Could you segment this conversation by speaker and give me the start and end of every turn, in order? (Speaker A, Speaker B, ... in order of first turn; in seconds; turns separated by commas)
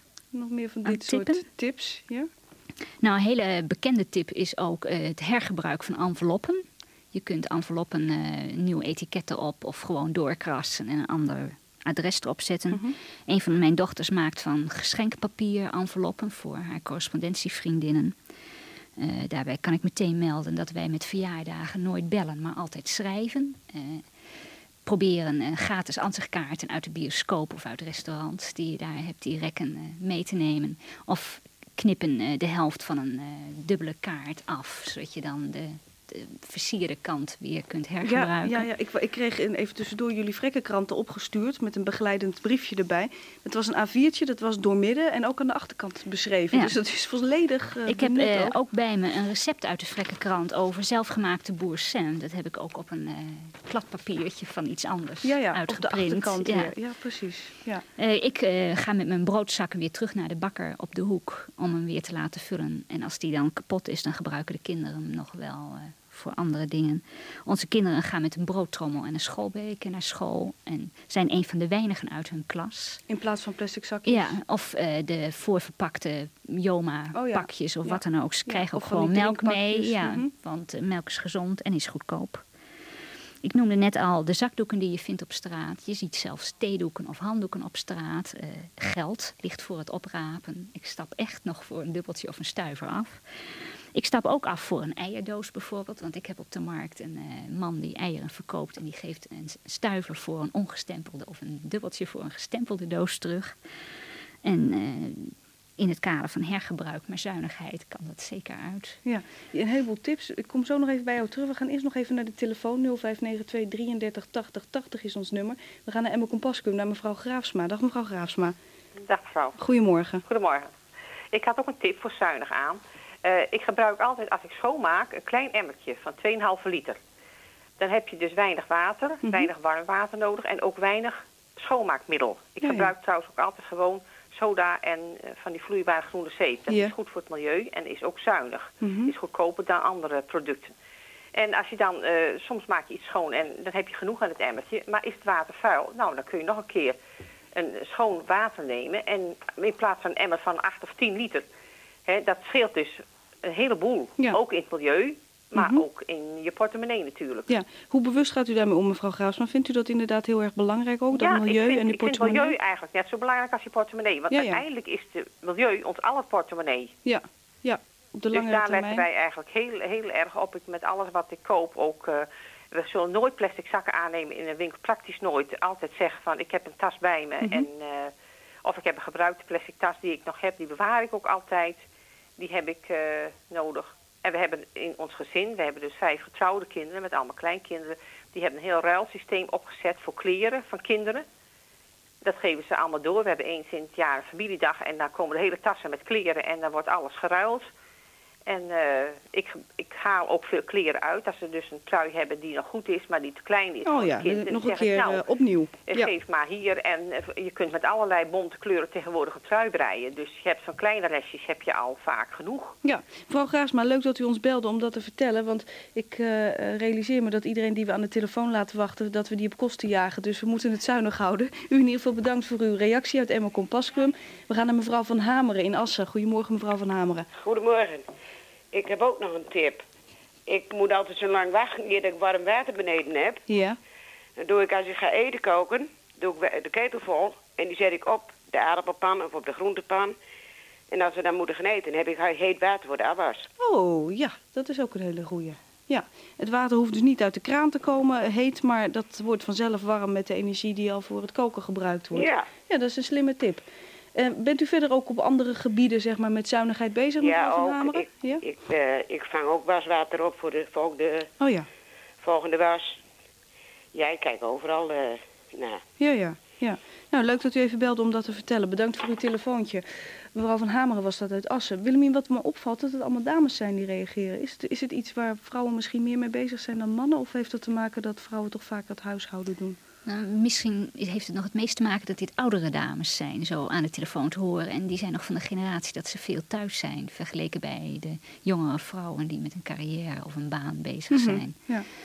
Speaker A: 0.3-2.3, Speaker B: 0.8-1.4, Speaker B: 3.0-18.1, Speaker A: 12.7-12.9, Speaker B: 19.0-24.1, Speaker B: 24.8-38.7, Speaker A: 38.0-48.5, Speaker B: 47.9-56.7, Speaker A: 55.2-57.8, Speaker B: 58.0-73.0, Speaker A: 73.1-74.4, Speaker B: 74.0-82.4, Speaker A: 77.1-80.3, Speaker B: 83.4-93.2, Speaker B: 93.9-103.5, Speaker B: 104.4-109.0, Speaker A: 109.0-118.5, Speaker C: 119.0-119.6, Speaker A: 119.6-120.2, Speaker C: 120.3-120.7, Speaker C: 121.3-127.0, Speaker C: 127.8-140.7, Speaker A: 132.6-132.9, Speaker A: 138.8-139.1, Speaker C: 141.3-146.9, Speaker C: 147.5-151.5, Speaker C: 152.1-157.6, Speaker A: 155.5-155.8, Speaker A: 157.5-162.5, Speaker C: 161.1-166.9, Speaker A: 164.3-164.6, Speaker A: 167.1-169.0, Speaker C: 168.3-178.1, Speaker A: 177.4-177.7, Speaker C: 178.6-181.8, Speaker C: 182.4-191.2, Speaker C: 192.2-197.7, Speaker C: 198.5-205.2, Speaker A: 203.8-206.1, Speaker C: 205.8-212.8, Speaker A: 212.8-227.3, Speaker D: 227.4-228.1, Speaker D: 228.7-229.8, Speaker D: 230.5-233.4, Speaker A: 233.5-233.8, Speaker D: 234.4-240.2, Speaker D: 240.9-243.5, Speaker A: 243.6-258.4, Speaker D: 252.1-252.5, Speaker D: 257.2-261.3, Speaker A: 261.4-261.7, Speaker D: 262.2-263.0, Speaker D: 263.9-265.8, Speaker A: 266.0-279.8, Speaker B: 280.1-291.6, Speaker A: 291.1-291.9